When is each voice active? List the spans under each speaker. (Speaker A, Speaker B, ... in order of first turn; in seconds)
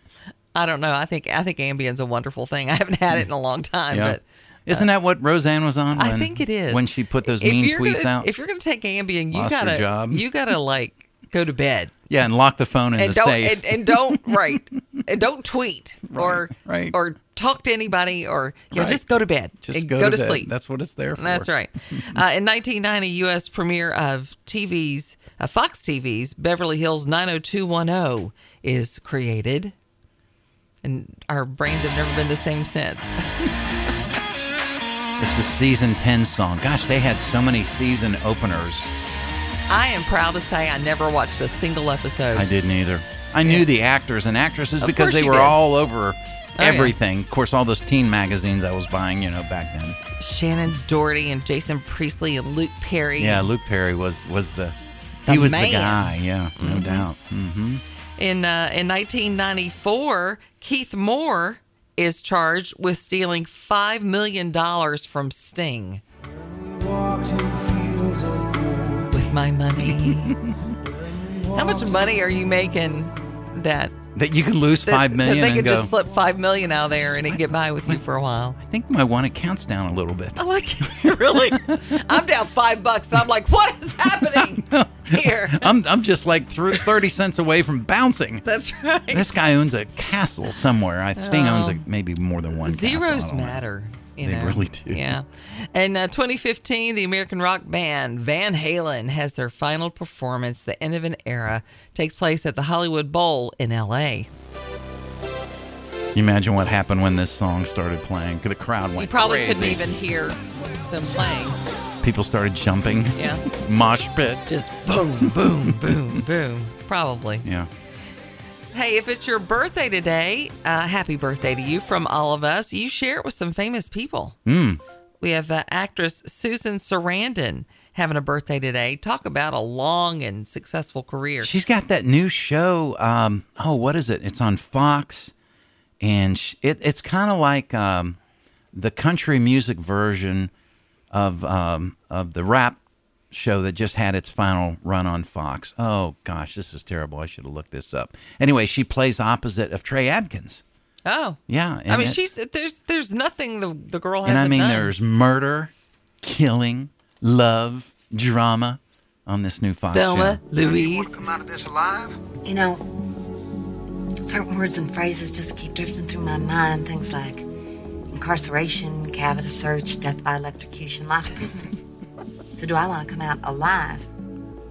Speaker A: 0.5-4.9, 5.9-11.9, 13.0-20.5, 21.2-29.7, 30.8-33.5, 39.7-42.5, 44.8-45.6, 46.6-46.9, 50.2-53.5, 55.2-57.1, 58.2-66.0, 69.1-70.4, 71.5-74.0, 74.8-78.6, 80.4-85.7, 88.5-89.3, 91.2-91.8, 92.6-104.3, 109.0-111.6, 113.1-113.4, 114.5-117.5, 118.7-124.4, 125.2-131.5, 151.1-154.9, 159.9-161.2
Speaker B: 3.9-8.3, 9.3-10.2, 12.1-14.6, 16.1-16.9, 18.7-19.0, 19.6-22.2, 35.2-38.9, 42.3-50.0, 53.2-54.8, 55.3-57.8, 69.8-70.6, 74.1-75.9, 77.0-78.0, 78.6-82.0, 84.1-88.5, 89.1-93.6, 94.2-95.1, 106.1-109.9, 112.0-114.5, 115.7-116.2, 117.4-117.7, 124.4-124.8, 131.4-135.3, 136.0-138.2, 138.7-140.5, 141.1-142.8, 143.3-150.6, 151.5-152.3, 154.2-160.4
Speaker C: 66.4-69.1, 71.1-71.9, 160.6-162.2
Speaker D: 162.4-162.9, 164.2-167.4, 168.1-171.7, 172.5-174.1